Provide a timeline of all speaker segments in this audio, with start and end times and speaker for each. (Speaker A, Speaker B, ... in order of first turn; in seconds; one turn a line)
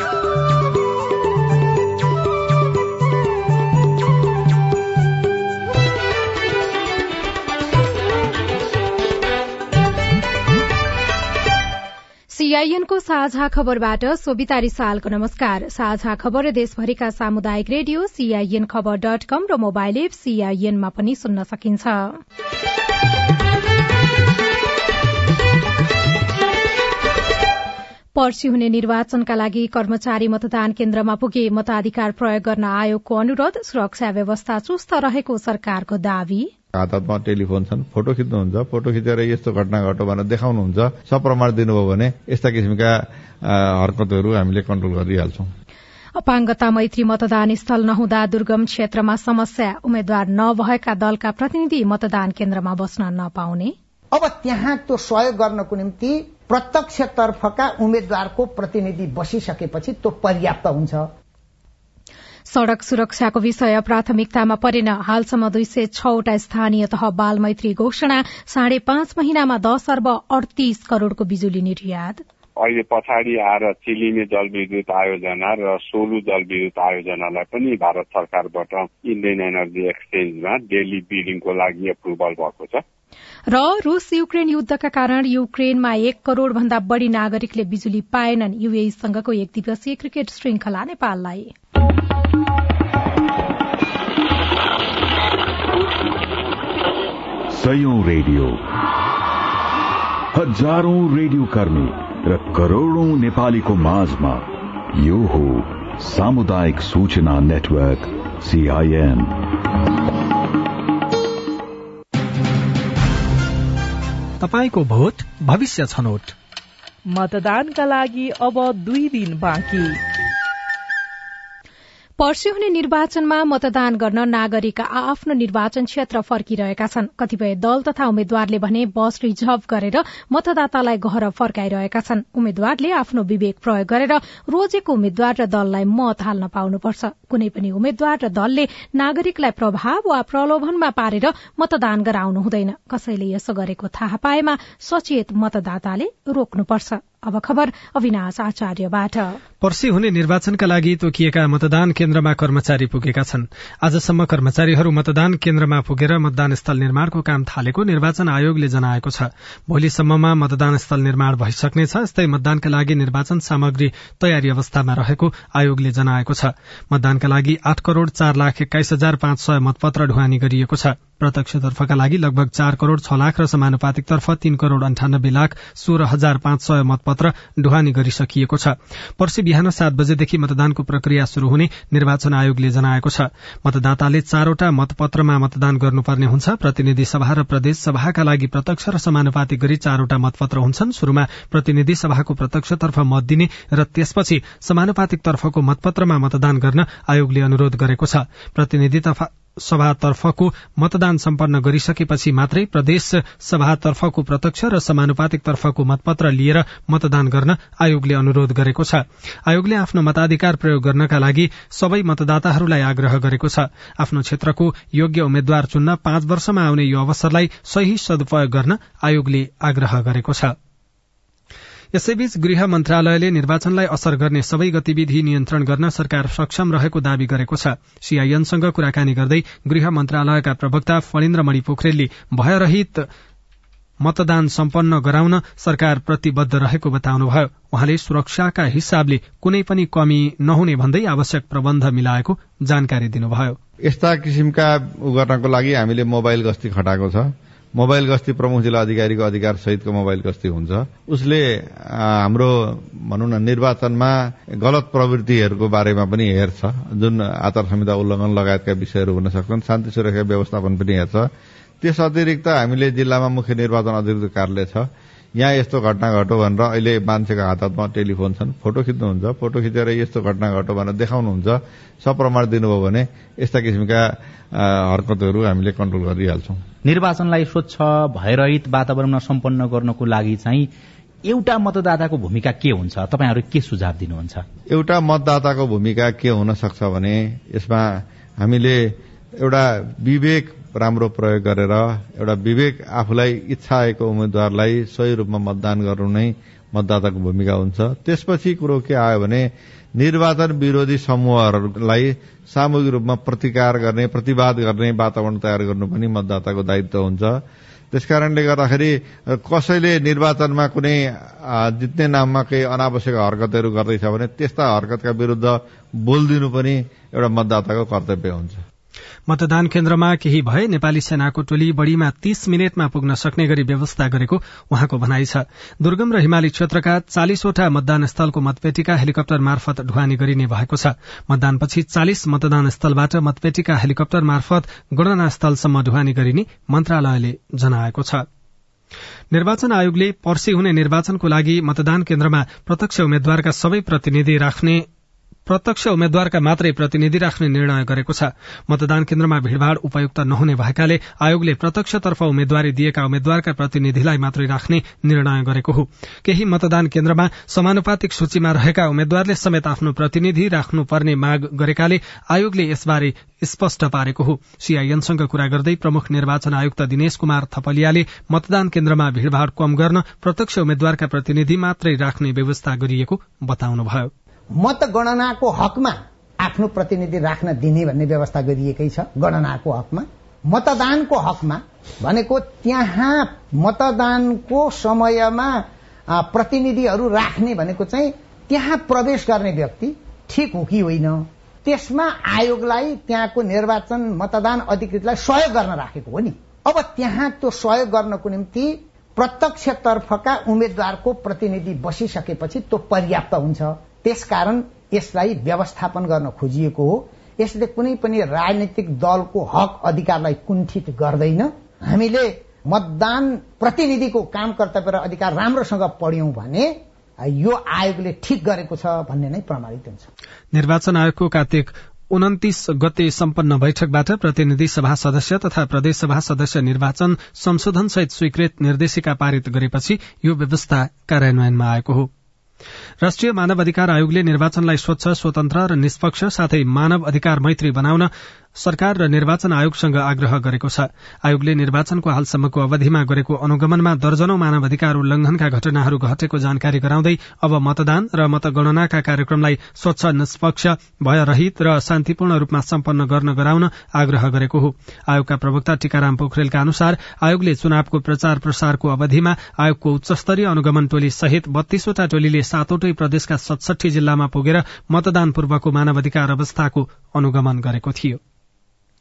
Speaker A: 12.3-22.2
Speaker A: 28.1-36.5
Speaker B: 36.8-45.5
Speaker A: 46.2-53.7
Speaker C: 54.1-61.1
Speaker A: 62.5-72.2
Speaker D: 72.6-82.8
Speaker A: 83.5-91.5
Speaker E: 97.5-98.6
Speaker E: 100.3-109.4
Speaker F: 114.4-116.3
Speaker G: 117.1-120.0
Speaker A: 122.2-149.4
Speaker F: 149.6-220.5
Speaker F: 221.9-233.0
Speaker F: 234.0-243.6
Speaker B: 243.8-261.2
Speaker B: 261.8-264.9
Speaker B: 265.4-276.6
Speaker H: 276.8-280.7
Speaker H: 281.2-284.4
Speaker B: 284.7-288.8
Speaker B: 289.4-307.4
Speaker B: 307.9-318.6
Speaker F: 319.3-338.2
Speaker F: 339.3-344.8
Speaker F: 345.5-374.1
Speaker C: 374.6-420.1
Speaker F: 420.5-432.1
Speaker F: 433.0-468.2